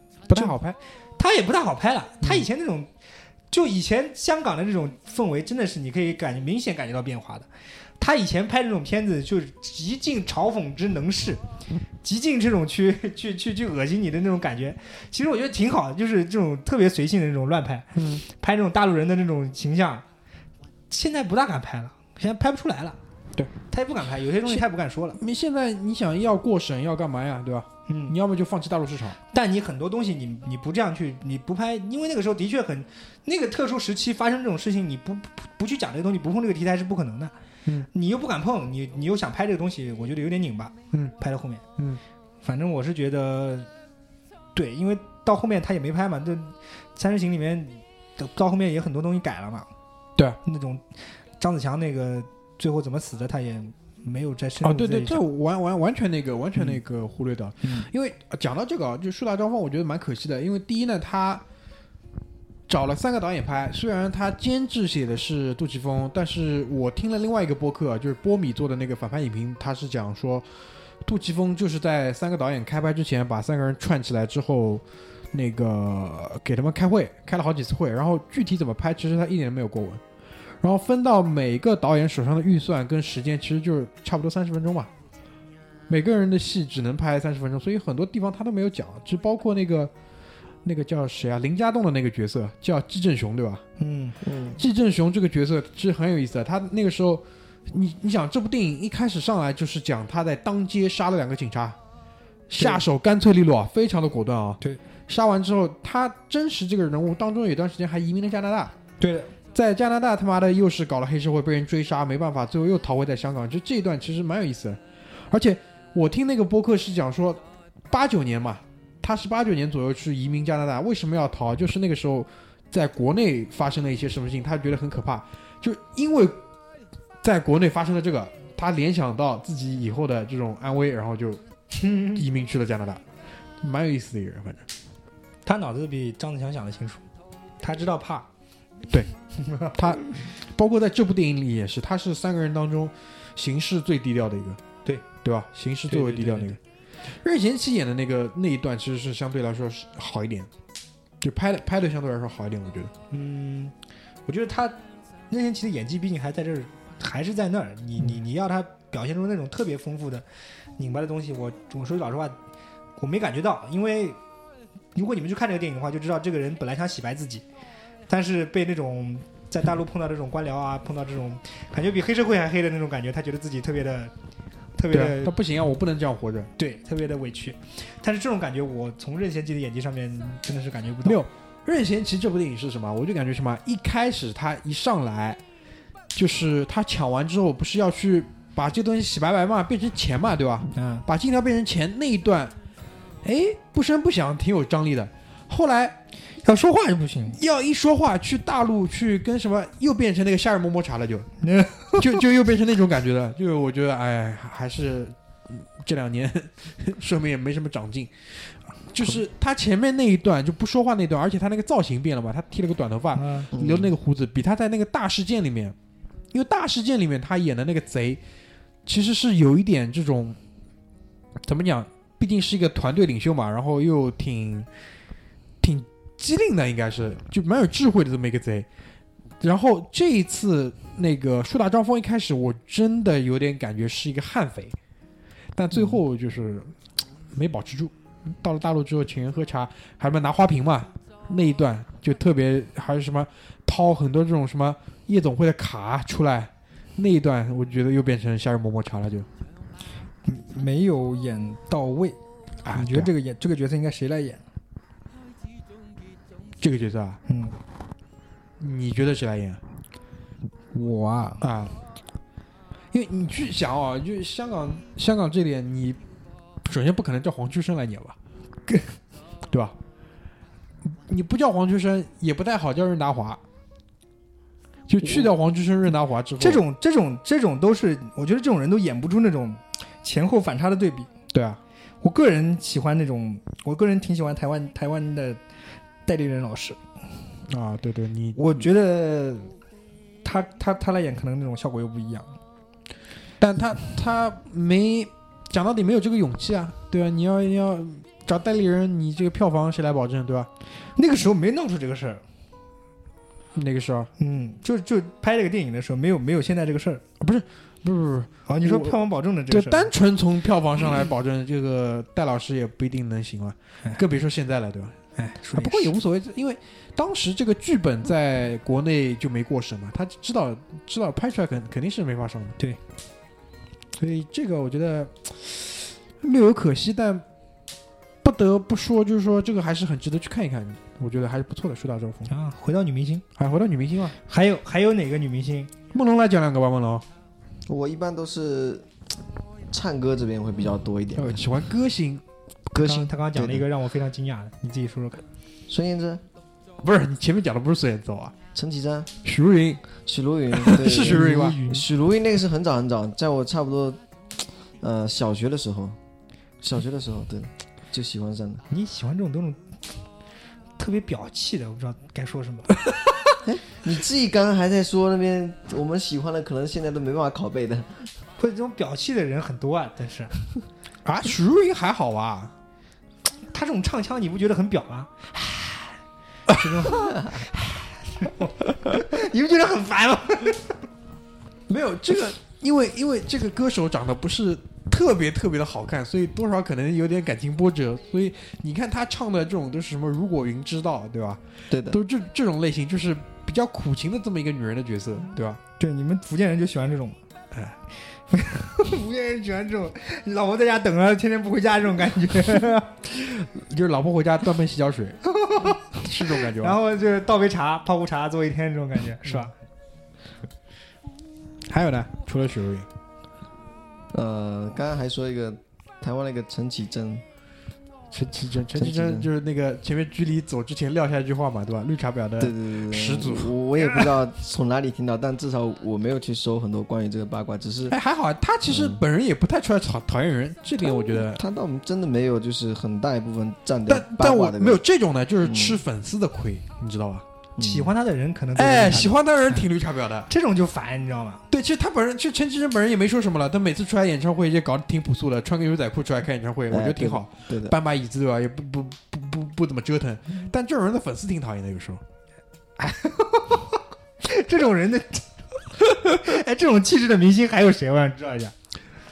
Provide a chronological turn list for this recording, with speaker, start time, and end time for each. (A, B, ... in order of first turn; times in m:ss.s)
0:00.3-0:00.8 A
0:01.2-0:02.9 B
0:02.2-0:02.5 A
0:03.5-0:07.5 B
0:08.0-0:11.4 B
0:12.0-0:20.0 B
0:18.0-0:18.2 A
0:20.9-0:23.0 B
0:23.7-0:25.2 B
0:25.2-0:29.2 A
0:27.9-0:28.2 B
0:29.3-0:37.3 B
0:37.9-0:41.6 B
0:42.4-0:43.7 B
0:44.6-0:49.7 B
0:50.4-0:50.9 B
0:51.4-0:55.2 B
0:54.6-1:01.4 A
1:02.7-1:10.5 A
1:11.0-1:20.0 A
1:20.6-1:24.9 A
1:25.9-1:29.9 A
1:30.6-1:33.6 A
1:33.8-1:34.2 B
1:34.2-1:34.6 C
1:34.6-1:41.8 A
1:42.5-1:48.7 A
1:42.6-1:42.8 B
1:49.0-1:49.3 B
1:49.5-2:06.4 A
2:07.2-2:11.4 A
2:11.8-2:12.2 B
2:12.1-2:13.0 A
2:13.6-2:14.7 A
2:15.4-2:17.0 B
2:17.6-2:18.3 B
2:19.4-2:19.9 B
2:19.7-2:24.6 A
2:25.2-2:26.6 A
2:25.9-2:26.6 B
2:27.1-2:30.5 A
2:31.2-2:32.9 A
2:33.1-2:33.7 B
2:34.3-2:34.8 B
2:35.3-2:40.2 B
2:40.8-2:42.4 B
2:43.0-2:44.2 B
2:45.0-2:47.4 B
2:48.1-2:54.1 B
2:54.8-2:55.3 B
2:54.9-2:56.5 A
2:56.6-3:01.2 B
3:01.0-3:05.4 A
3:06.1-3:12.5 A
3:10.8-3:11.0 B
3:13.2-3:16.0 A
3:16.4-3:17.4 B
3:17.3-3:21.3 A
3:21.4-3:22.2 B
3:22.0-3:35.8 A
3:33.2-3:33.5 B
3:33.5-3:33.9 C
3:36.3-3:38.2 A
3:38.9-3:40.4 A
3:41.4-3:44.7 A
3:45.6-3:48.7 A
3:49.4-3:54.8 A
3:55.6-3:56.8 A
3:57.3-4:09.3 A
4:10.2-4:12.2 B
4:12.6-4:13.1 A
4:12.7-4:14.4 B
4:16.6-4:17.2 A
4:17.3-4:17.6 B
4:18.6-4:19.6 A
4:20.7-4:21.4 B
4:21.4-4:21.8 A
4:22.9-4:26.0 A
4:26.6-4:28.2 A
4:28.7-4:28.9 B
4:29.5-4:29.8 A
4:30.8-4:33.4 A
4:34.9-4:36.6 A
4:35.0-4:35.3 B
4:36.4-4:41.1 B
4:41.3-4:41.6 A
4:42.0-4:45.4 B
4:46.1-4:46.8 B
4:47.5-4:48.7 A
4:48.4-4:49.5 B
4:50.2-4:52.4 B
4:53.4-5:00.5 A
5:01.0-5:02.2 B
5:03.6-5:04.1 A
5:04.2-5:07.0 B
5:07.2-5:15.0 A
5:08.5-5:09.9 B
5:15.2-5:15.9 B
5:15.5-5:22.6 A
5:24.0-5:27.3 A
5:28.2-5:32.3 A
5:32.3-5:33.2 B
5:33.4-5:34.2 A
5:34.2-5:35.7 B
5:35.9-5:37.0 A
5:37.7-5:38.9 C
5:39.7-5:41.4 C
5:41.2-5:43.0 A
5:42.8-5:43.6 C
5:42.8-5:45.2 B
5:45.7-5:46.2 C
5:46.8-5:48.4 A
5:48.5-5:49.1 C
5:49.2-5:49.9 A
5:50.0-5:54.0 C
5:50.5-5:51.6 A
5:50.8-5:51.8 B
5:54.8-5:56.0 C
5:56.6-5:58.6 C
5:58.7-5:59.6 B
6:00.8-6:02.8 B
6:03.4-6:08.0 C
6:08.4-6:10.4 B
6:11.0-6:12.5 A
6:13.5-6:16.0 B
6:16.5-6:20.7 B
6:21.7-6:35.6 A
6:31.7-6:32.0 C
6:35.8-6:37.2 B
6:38.3-6:42.9 B
6:43.1-6:45.2 A
6:45.4-6:49.5 B
6:45.9-6:46.8 A
6:51.7-6:52.9 A
6:54.1-6:57.2 C
6:58.1-7:04.2 A
6:58.8-6:59.3 C
7:02.4-7:08.0 C
7:07.9-7:11.4 A
7:08.7-7:09.0 C
7:10.9-7:14.8 C
7:13.9-7:17.3 A
7:15.4-7:15.8 C
7:17.6-7:17.9 C
7:17.6-7:19.7 B
7:18.6-7:20.3 A
7:20.3-7:21.4 B
7:21.5-7:32.0 A
7:26.7-7:27.8 C
7:32.8-7:38.5 B